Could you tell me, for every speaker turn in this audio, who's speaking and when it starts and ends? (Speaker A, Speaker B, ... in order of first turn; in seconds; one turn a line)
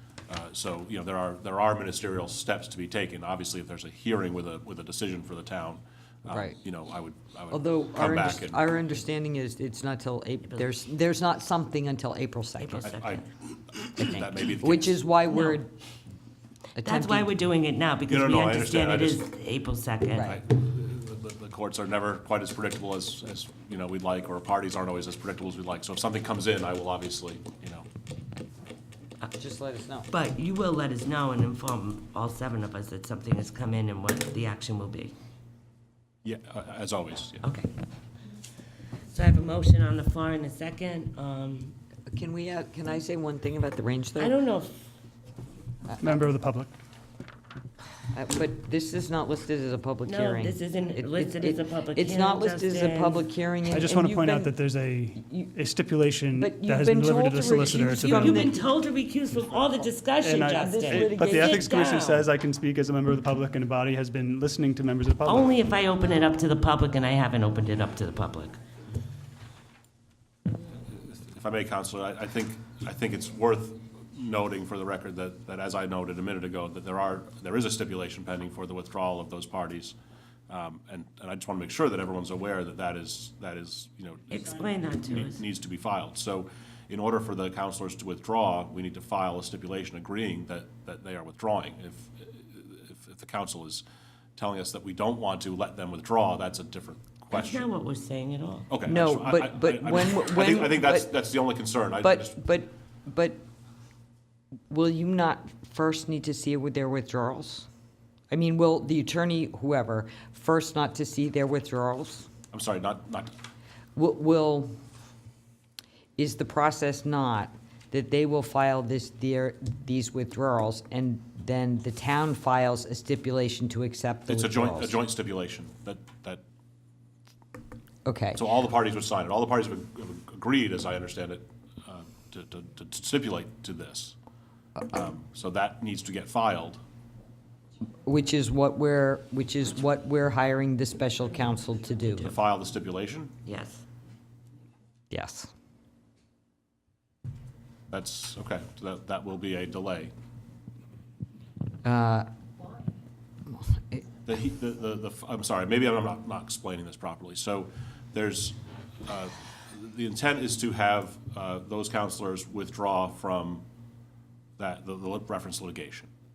Speaker A: 0.3-8.7
Speaker B: 6.3-6.6
Speaker B: 7.5-12.9
Speaker C: 12.6-13.2
Speaker A: 12.8-13.2
Speaker A: 13.8-15.0
Speaker B: 14.0-15.7
Speaker C: 15.3-15.6
Speaker C: 16.8-20.3
Speaker B: 16.8-17.3
Speaker A: 18.1-19.2
Speaker B: 20.1-20.4
Speaker A: 20.2-27.9
Speaker B: 29.3-30.1
Speaker C: 30.1-35.1
Speaker A: 36.2-37.5
Speaker C: 37.4-37.7
Speaker C: 39.1-41.7
Speaker B: 42.1-44.3
Speaker C: 44.2-44.8
Speaker B: 45.9-46.3
Speaker D: 46.0-46.7
Speaker B: 48.1-54.5
Speaker C: 50.0-53.2
Speaker D: 53.7-58.5
Speaker B: 55.2-55.5
Speaker B: 56.4-58.5
Speaker C: 58.0-62.2
Speaker D: 60.2-65.5
Speaker B: 60.5-61.6
Speaker C: 65.2-68.6
Speaker A: 71.0-80.0
Speaker A: 80.5-93.8
Speaker C: 84.3-85.4
Speaker A: 94.3-97.7
Speaker C: 97.3-98.7
Speaker A: 98.7-102.3
Speaker B: 98.9-101.1
Speaker B: 102.0-103.4
Speaker B: 104.7-107.7
Speaker B: 108.3-112.3
Speaker A: 112.5-113.3
Speaker B: 114.0-114.7
Speaker B: 116.2-125.0
Speaker A: 124.3-126.4
Speaker B: 128.1-128.4
Speaker A: 128.3-134.2
Speaker A: 134.8-136.8
Speaker B: 138.1-142.3
Speaker A: 142.2-143.3
Speaker C: 143.4-143.8
Speaker B: 145.1-145.5
Speaker A: 147.9-150.1
Speaker B: 151.8-152.3
Speaker B: 153.5-154.0
Speaker A: 154.2-163.6
Speaker A: 164.6-166.1